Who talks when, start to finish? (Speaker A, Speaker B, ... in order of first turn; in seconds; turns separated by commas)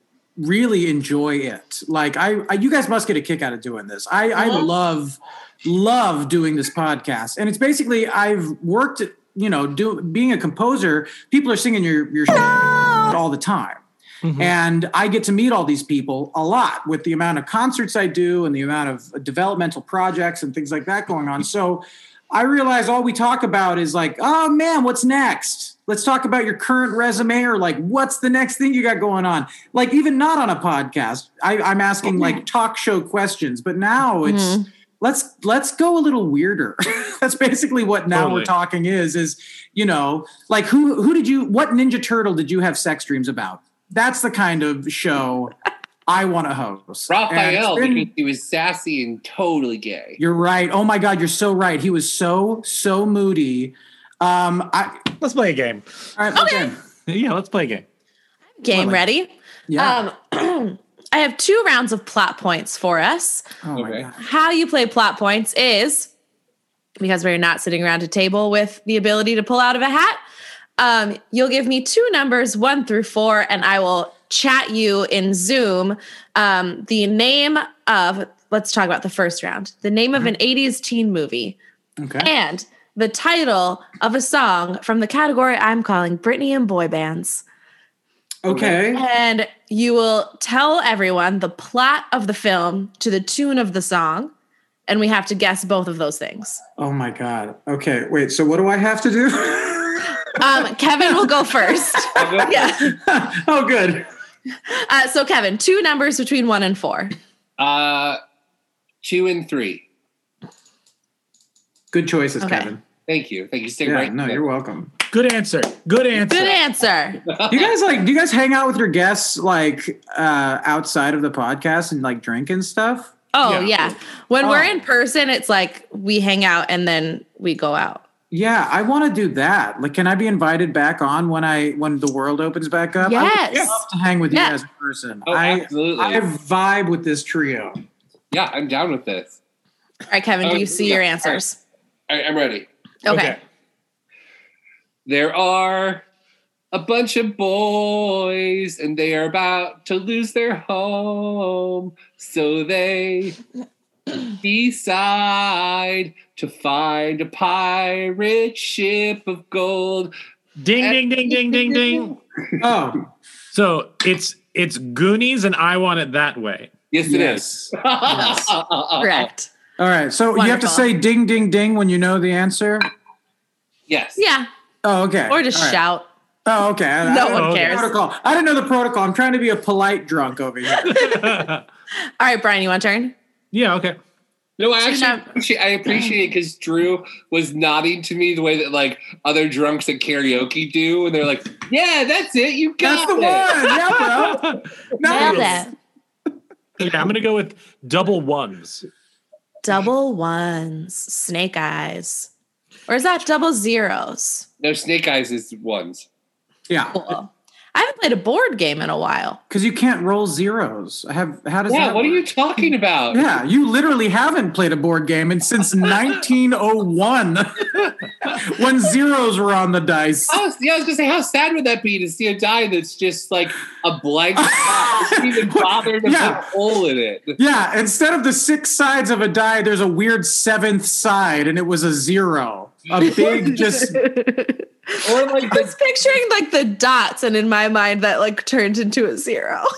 Speaker A: 0.4-13.8, Speaker B: 4.4-4.7, Speaker C: 14.2-14.5, Speaker A: 14.4-45.5, Speaker B: 34.2-34.7, Speaker C: 38.1-38.5, Speaker A: 46.1-48.1, Speaker D: 47.1-50.2, Speaker A: 50.2-55.0, Speaker C: 55.2-55.9, Speaker A: 56.2-56.8, Speaker B: 56.4-56.7, Speaker C: 57.1-57.9, Speaker B: 58.6-63.5, Speaker A: 58.7-59.0, Speaker A: 59.7-60.0, Speaker A: 63.6-64.2, Speaker D: 63.8-64.1, Speaker B: 64.2-66.1, Speaker B: 67.0-70.2, Speaker B: 70.8-81.6, Speaker A: 82.0-82.3, Speaker B: 82.2-87.4, Speaker A: 88.5-89.0, Speaker B: 88.6-94.3, Speaker B: 94.9-96.6, Speaker A: 96.8-100.3, Speaker B: 100.4-102.9, Speaker A: 101.0-104.1, Speaker D: 102.2-102.6, Speaker B: 104.7-107.1, Speaker D: 107.6-108.2, Speaker D: 109.0-109.8, Speaker A: 111.9-112.8, Speaker B: 112.4-112.7, Speaker D: 113.1-114.4, Speaker A: 113.8-114.9, Speaker C: 115.1-116.6, Speaker B: 116.2-117.2, Speaker D: 117.3-117.7, Speaker A: 117.5-123.1, Speaker B: 123.3-128.0, Speaker C: 123.4-123.8, Speaker A: 124.4-124.8, Speaker A: 128.3-137.8, Speaker B: 133.0-133.8, Speaker B: 134.3-134.6, Speaker D: 135.3-136.2, Speaker D: 138.3-139.4, Speaker B: 140.1-141.6, Speaker D: 140.4-141.4, Speaker D: 142.1-142.7, Speaker B: 143.1-143.4, Speaker C: 143.1-143.4, Speaker D: 145.1-146.1, Speaker D: 146.7-153.4, Speaker D: 154.4-160.1, Speaker C: 160.6-162.1, Speaker D: 160.8-162.1, Speaker A: 162.6-163.0, Speaker C: 163.5-166.7, Speaker D: 166.9-169.3, Speaker A: 167.1-168.5, Speaker B: 169.0-169.5, Speaker A: 169.8-172.9, Speaker B: 170.3-170.9, Speaker D: 173.9-174.2, Speaker B: 174.2-174.5, Speaker A: 174.8-175.8, Speaker B: 175.3-176.1, Speaker A: 176.4-181.1, Speaker B: 177.0-177.9, Speaker C: 177.3-177.9, Speaker C: 180.8-181.6, Speaker B: 180.9-181.2, Speaker B: 182.2-183.2, Speaker C: 183.5-184.0, Speaker D: 184.6-193.7, Speaker B: 184.8-185.3, Speaker A: 192.8-195.7, Speaker C: 194.0-195.6, Speaker B: 195.0-195.7, Speaker C: 196.8-198.9, Speaker B: 199.6-202.3, Speaker B: 202.9-204.5, Speaker D: 204.6-206.1, Speaker A: 206.7-207.1, Speaker B: 206.9-209.4, Speaker A: 209.5-212.3, Speaker D: 211.7-213.3, Speaker A: 213.1-220.4, Speaker D: 220.3-227.4, Speaker A: 224.4-226.5, Speaker A: 227.4-234.0, Speaker B: 233.0-239.7, Speaker D: 235.0-235.8